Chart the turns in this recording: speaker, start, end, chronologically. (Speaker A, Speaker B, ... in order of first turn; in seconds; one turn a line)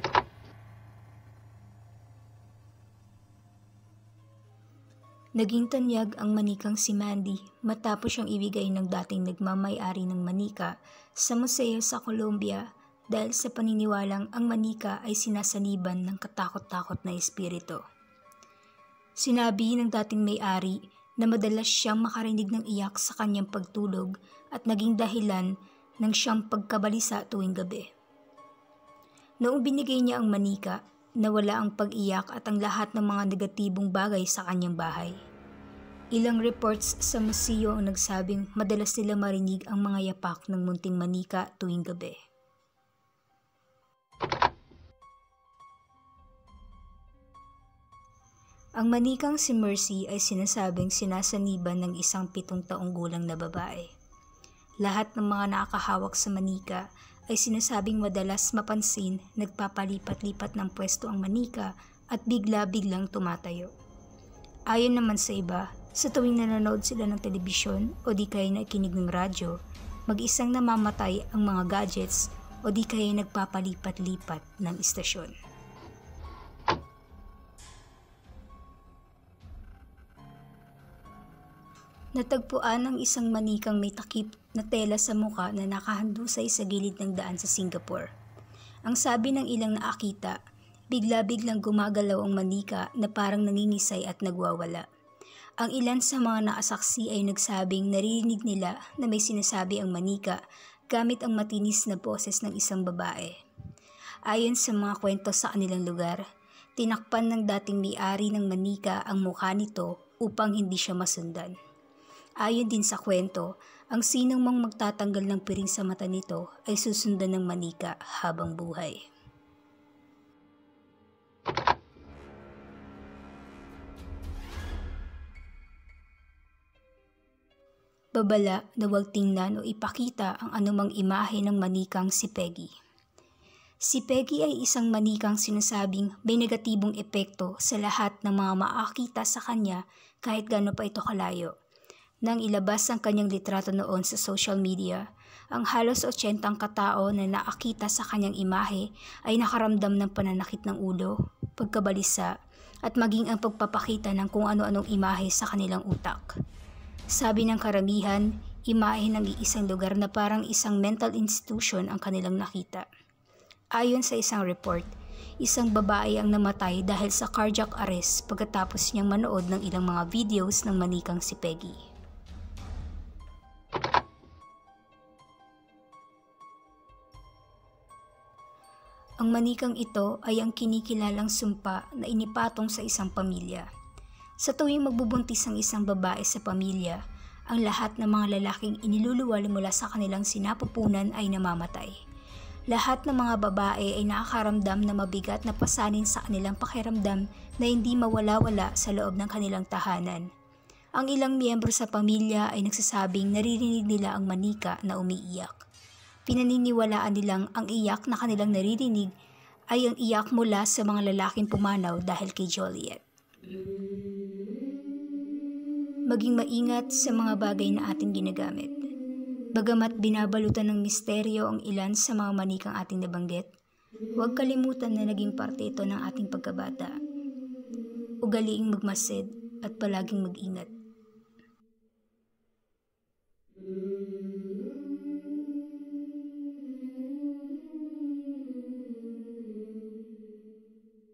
Speaker A: 5.4-17.8
Speaker A: 19.2-27.9
Speaker A: 29.4-35.1
Speaker A: 36.1-42.1
Speaker A: 48.8-53.9
Speaker A: 54.8-63.7
Speaker A: 64.7-69.5
Speaker A: 70.1-75.3
Speaker A: 82.1-88.1
Speaker A: 88.8-90.3
Speaker A: 90.9-94.8
Speaker A: 95.6-103.3
Speaker A: 104.3-106.2
Speaker A: 106.8-111.5
Speaker A: 112.4-119.0
Speaker A: 128.2-132.7
Speaker A: 133.8-141.5
Speaker A: 142.2-152.3
Speaker A: 152.8-156.3
Speaker A: 157.1-162.8
Speaker A: 163.8-164.9
Speaker A: 165.4-171.8
Speaker A: 179.2-183.7
Speaker A: 184.4-191.9
Speaker A: 192.7-200.3
Speaker A: 201.0-205.6
Speaker A: 206.3-209.1
Speaker A: 209.7-213.0
Speaker A: 216.1-218.8
Speaker A: 219.5-223.5
Speaker A: 224.2-226.9
Speaker A: 228.2-230.7